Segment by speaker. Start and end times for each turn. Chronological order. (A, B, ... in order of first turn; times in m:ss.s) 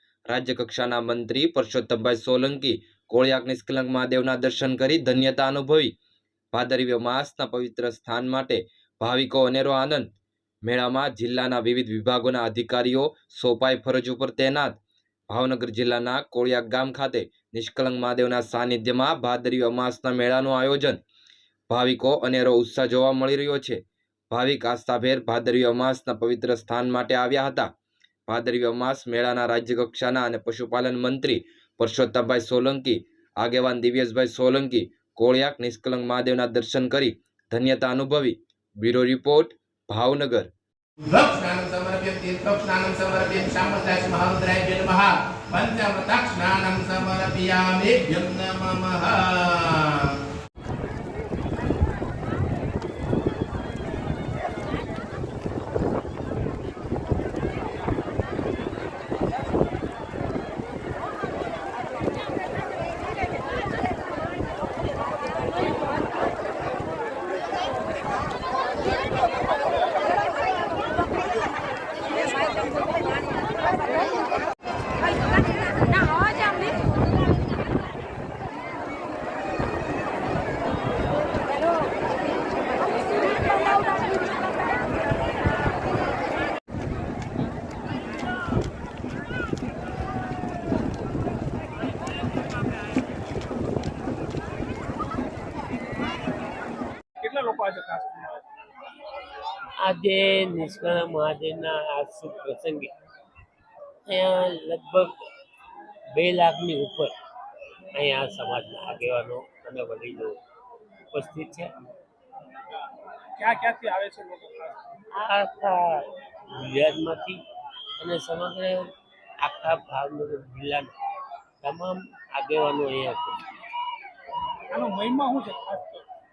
0:00.3-0:05.9 A
0:06.5-0:10.1 A
0:10.6-0:14.8 A
0:15.3-0:21.0 A
0:21.7-0:27.7 A
0:28.3-0:40.5 A
0:41.1-0:50.2 B
1:37.2-1:38.4 C
1:39.8-1:42.9 D
1:44.0-1:45.2 D
1:46.1-1:47.1 D
1:47.9-1:50.4 D
1:51.1-1:51.7 D
1:53.4-1:54.9 C
1:55.1-1:57.4 D
1:58.0-2:00.9 D
2:01.6-2:03.4 D
2:04.7-2:06.0 C